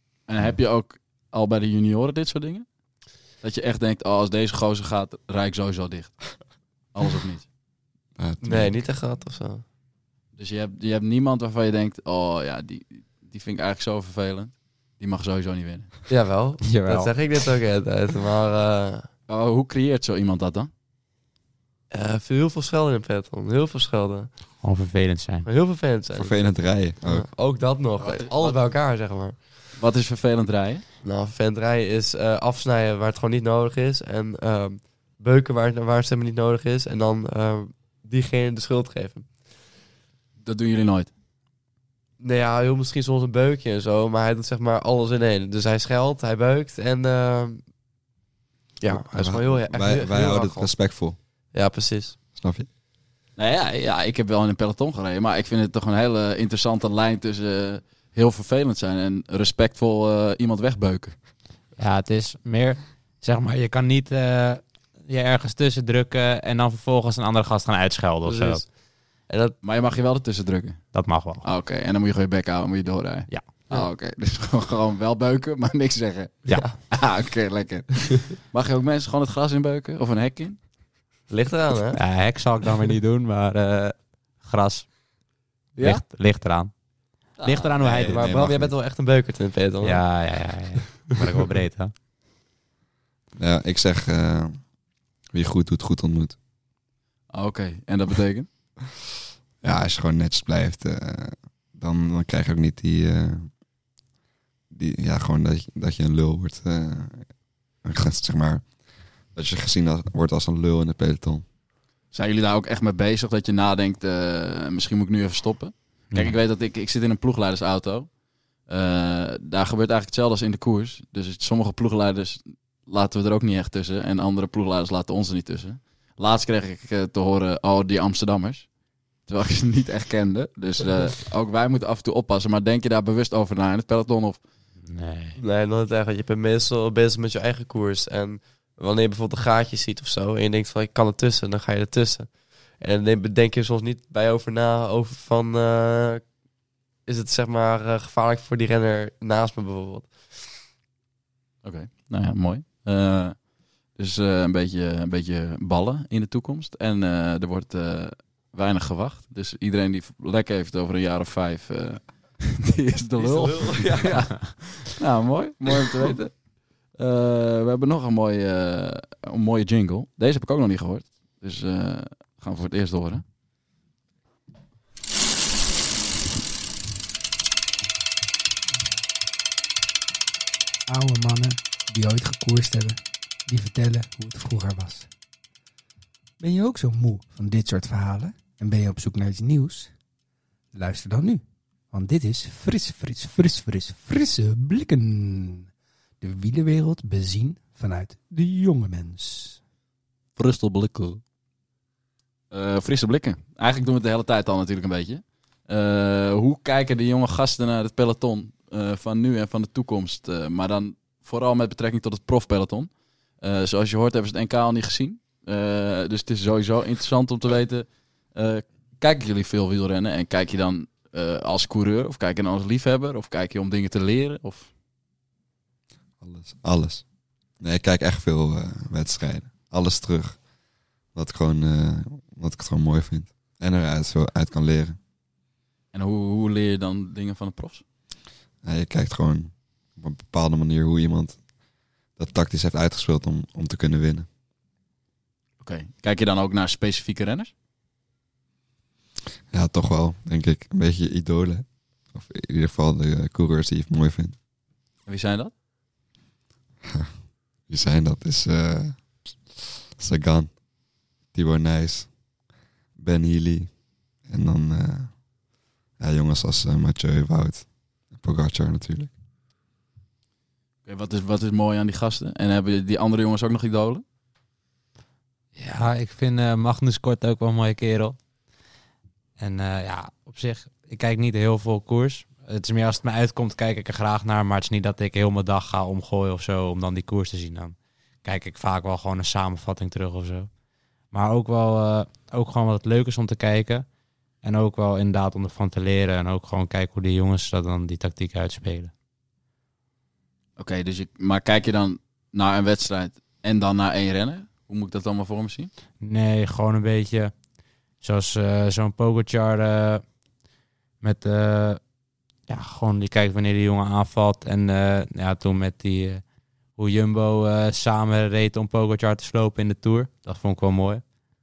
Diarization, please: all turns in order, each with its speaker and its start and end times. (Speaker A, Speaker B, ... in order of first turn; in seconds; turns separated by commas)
Speaker A: 0.3-7.5, Speaker B: 8.2-8.8, Speaker C: 8.4-9.6, Speaker A: 10.4-15.9, Speaker C: 16.1-19.1, Speaker D: 16.6-17.1, Speaker A: 19.3-20.7, Speaker C: 21.9-24.5, Speaker D: 24.6-25.5, Speaker C: 25.4-29.5, Speaker B: 26.1-27.3, Speaker A: 28.0-28.6, Speaker A: 29.8-30.8, Speaker C: 31.0-39.4, Speaker A: 40.4-41.1, Speaker C: 42.2-47.7, Speaker C: 48.8-51.0, Speaker B: 48.9-51.2, Speaker C: 51.5-52.2, Speaker B: 52.4-52.7, Speaker A: 53.4-61.2, Speaker D: 61.8-68.6, Speaker C: 68.2-69.6, Speaker A: 69.6-80.6, Speaker D: 70.9-71.5, Speaker C: 76.5-76.8, Speaker C: 81.3-82.0, Speaker D: 81.9-85.0, Speaker A: 85.8-86.0, Speaker D: 85.8-88.3, Speaker C: 87.4-90.6, Speaker B: 87.8-88.8, Speaker D: 89.8-91.9, Speaker B: 93.4-96.4, Speaker A: 97.3-98.5, Speaker B: 99.6-103.5, Speaker B: 104.7-111.5, Speaker A: 112.1-118.1, Speaker A: 118.7-134.4, Speaker D: 134.9-135.4, Speaker C: 135.4-146.3, Speaker C: 147.1-150.6, Speaker A: 151.6-173.2, Speaker C: 163.2-164.5, Speaker E: 180.9-185.1, Speaker E: 186.4-189.9, Speaker E: 190.7-195.7, Speaker E: 196.2-199.6, Speaker A: 200.4-201.2, Speaker A: 202.5-224.7, Speaker B: 226.2-230.5, Speaker B: 231.1-235.0, Speaker A: 235.9-237.8, Speaker B: 238.6-244.3, Speaker A: 245.6-247.5, Speaker B: 249.5-254.4, Speaker A: 255.1-255.5, Speaker B: 256.8-265.3, Speaker B: 266.0-269.1, Speaker A: 270.9-274.0, Speaker D: 275.6-278.2, Speaker D: 279.4-290.5, Speaker D: 291.1-293.9, Speaker D: 294.4-298.9, Speaker A: 300.6-305.7, Speaker D: 306.0-310.1, Speaker D: 311.0-311.8, Speaker D: 312.5-321.1